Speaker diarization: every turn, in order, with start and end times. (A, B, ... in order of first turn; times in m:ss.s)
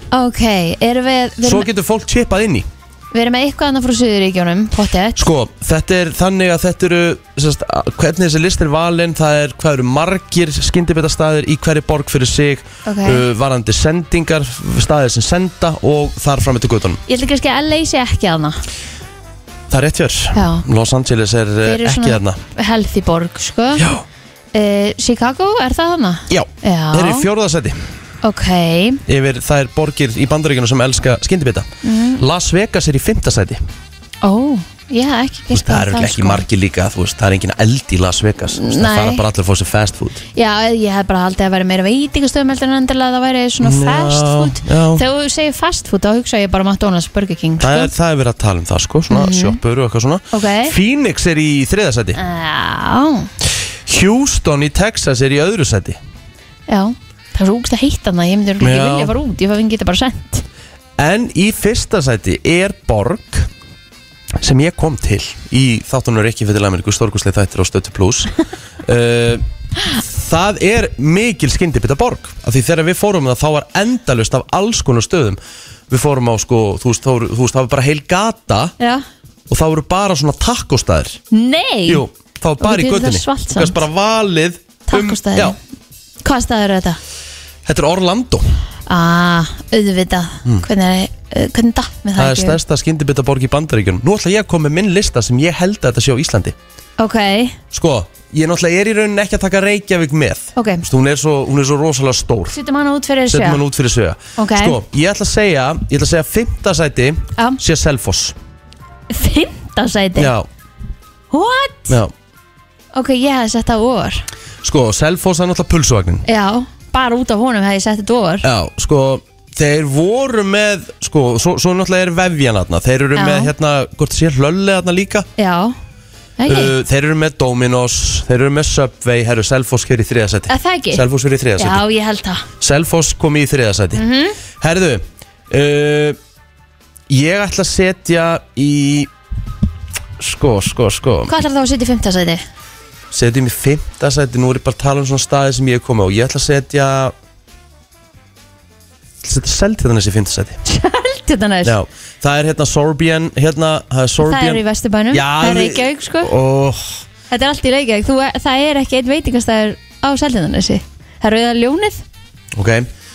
0:00.1-0:01.7 A
0:01.4-0:02.7 B
0:03.1-0:05.3 A
0:05.2-0:17.0 B
0:12.8-0:13.2 A
0:17.1-0:18.6 A
0:19.7-0:22.4 B
0:20.4-0:20.6 A
0:21.6-0:23.9 A
0:23.8-0:24.0 B
0:24.5-0:27.3 A
0:26.3-0:27.8 B
0:28.2-0:29.0 A
0:29.1-0:33.6 B
0:31.8-0:32.2 A
0:34.2-0:36.4 A
0:35.5-0:40.2 B
0:38.5-0:39.2 A
0:40.4-0:47.9 A
0:43.6-0:45.0 B
0:47.6-0:52.2 B
0:49.1-0:49.6 A
0:50.3-0:50.8 A
0:52.2-0:53.3 A
0:53.9-0:56.0 B
0:56.7-1:00.4 A
0:58.6-0:59.1 B
1:01.0-1:03.5 B
1:04.4-1:09.4 B
1:10.0-1:15.4 B
1:15.9-1:18.8 B
1:19.5-1:21.2 B
1:21.3-1:22.0 A
1:21.9-1:25.6 B
1:22.6-1:23.8 A
1:24.9-1:25.6 A
1:26.2-1:27.0 A
1:27.6-1:28.5 B
1:28.9-1:32.6 A
1:32.2-1:36.6 B
1:37.0-1:37.6 A
1:37.7-1:42.6 B
1:40.6-1:40.8 A
1:42.5-1:43.6 A
1:43.3-1:48.4 B
1:44.4-1:44.8 A
1:49.1-1:50.3 A
1:50.2-1:50.5 B
1:51.3-1:52.0 A
1:52.9-1:54.3 A
1:54.6-1:56.2 B
1:56.3-1:58.5 A
1:58.4-2:05.3 B
2:03.2-2:03.5 A
2:05.4-2:05.8 A
2:06.4-2:06.7 A
2:06.5-2:11.8 B
2:10.5-2:11.0 A
2:11.6-2:12.5 A
2:12.6-2:14.0 B
2:14.0-2:14.4 A
2:14.6-2:16.2 B
2:17.1-2:19.1 B
2:20.2-2:21.4 B
2:21.3-2:22.4 A
2:23.1-2:27.1 B
2:29.2-2:30.6 B
2:30.7-2:31.8 A
2:31.6-2:37.0 B
2:34.2-2:36.3 A
2:37.3-2:42.0 A
2:42.5-2:42.9 B